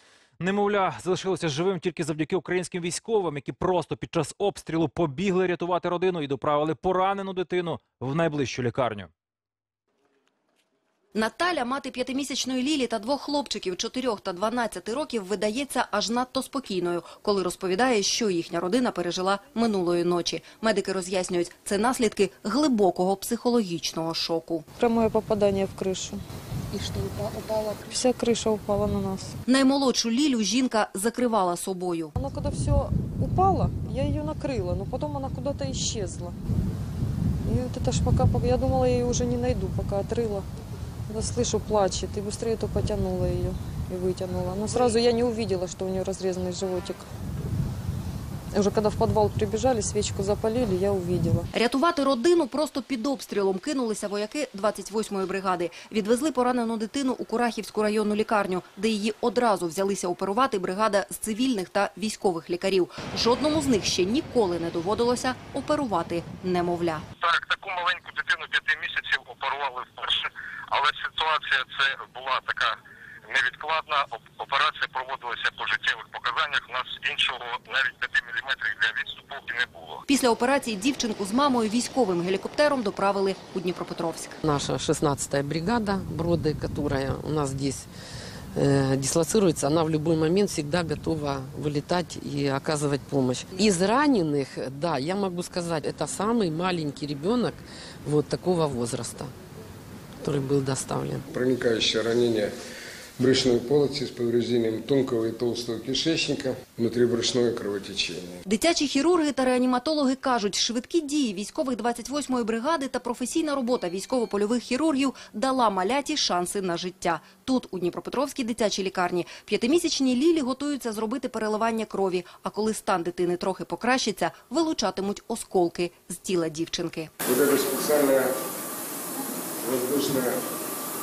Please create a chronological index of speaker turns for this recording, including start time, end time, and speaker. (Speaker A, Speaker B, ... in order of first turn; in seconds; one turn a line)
Speaker A: 0.4-9.1
Speaker B: 11.2-24.7
Speaker C: 24.8-26.2
Speaker C: 27.9-29.3
Speaker B: 29.5-32.2
Speaker C: 32.2-36.3
Speaker C: 37.5-40.5
Speaker C: 41.1-47.0
Speaker C: 48.6-51.5
Speaker B: 51.5-67.1
Speaker D: 67.2-80.0
Speaker B: 80.1-84.4
Speaker E: 84.4-87.9
Speaker E: 88.6-99.3
Speaker E: 100.2-101.2
Speaker F: 101.3-102.5
Speaker F: 103.2-108.4
Speaker B: 108.5-127.1
Speaker F: 127.2-128.3
Speaker F: 129.6-130.4